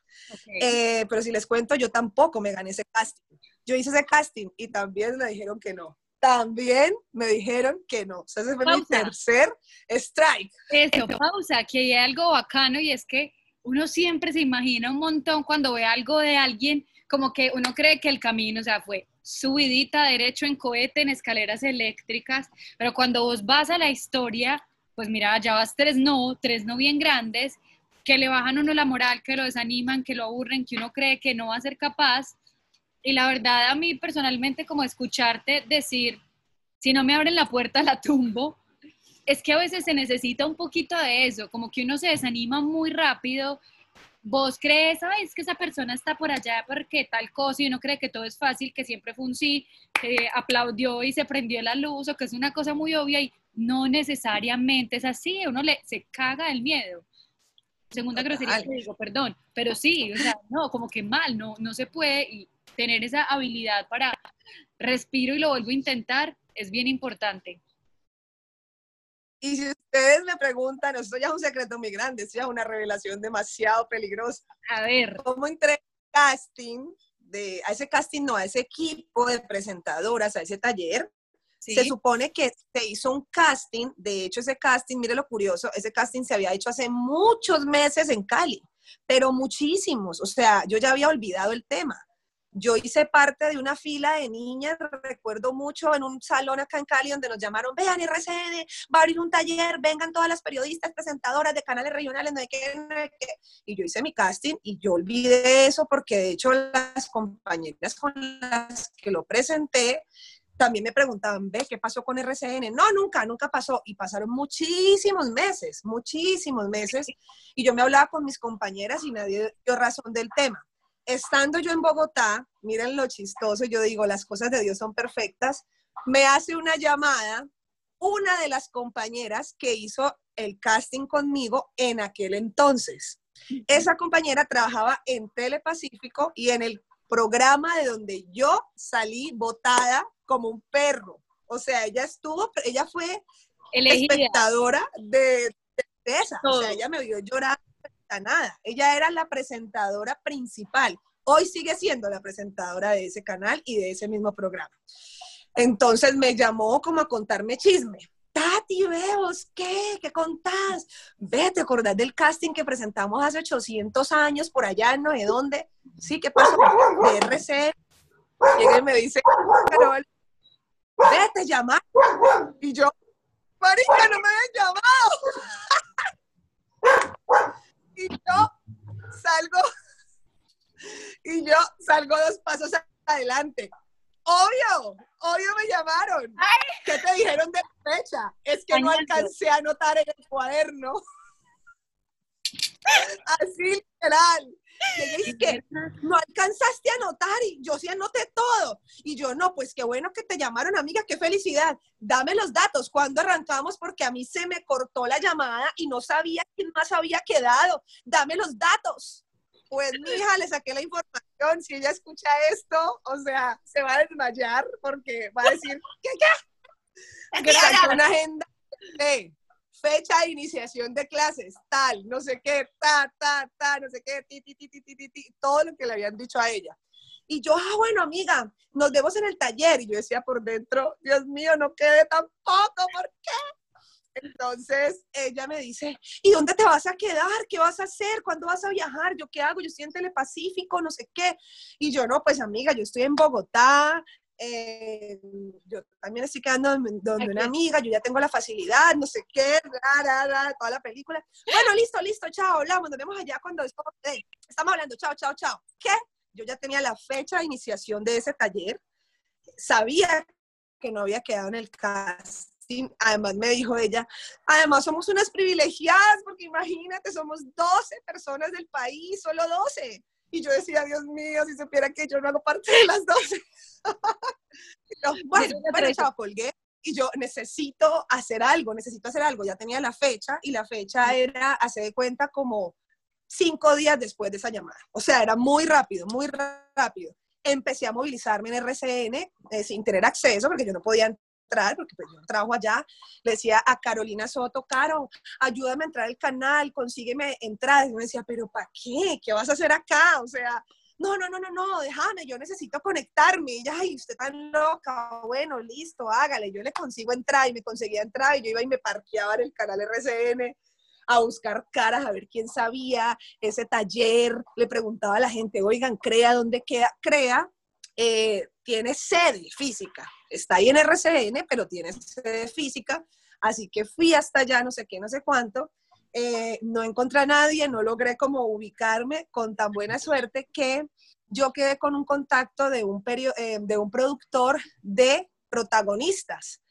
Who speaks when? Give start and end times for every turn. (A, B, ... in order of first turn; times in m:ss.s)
0:00.3-0:00.8 A
0:00.6-0:10.5 B
0:08.6-0:09.1 A
0:10.7-0:32.4 A
0:33.0-0:36.2 A
0:36.8-0:38.6 A
0:39.3-0:43.6 A
0:44.2-0:57.1 A
0:57.9-1:04.2 A
0:57.9-0:58.7 B
1:04.8-1:07.6 A
1:09.4-1:14.5 B
1:14.7-1:15.2 A
1:15.2-1:21.1 B
1:21.6-1:21.9 A
1:21.7-1:50.1 B
1:50.6-2:07.5 B
2:08.0-2:23.2 B
2:23.7-2:24.4 A
2:23.9-2:34.8 B
2:26.4-2:26.8 A
2:35.6-2:47.7 B
2:48.5-2:50.1 B
2:51.0-2:52.9 B
2:53.6-2:55.7 B
2:58.0-2:58.5 B
2:59.1-2:59.6 B
3:01.2-3:03.7 B
3:04.2-3:11.0 B
3:06.4-3:06.8 A
3:08.7-3:09.3 A
3:13.1-3:36.4 B
3:15.2-3:16.0 A
3:37.4-3:38.0 A
3:37.4-3:46.8 B
3:47.3-3:53.4 B
3:54.2-4:18.8 B
4:07.2-4:07.5 A
4:19.6-4:20.3 B
4:20.8-4:34.3 B
4:35.0-4:42.8 B
4:35.3-4:36.1 A
4:43.3-5:10.6 B
5:11.1-5:36.6 B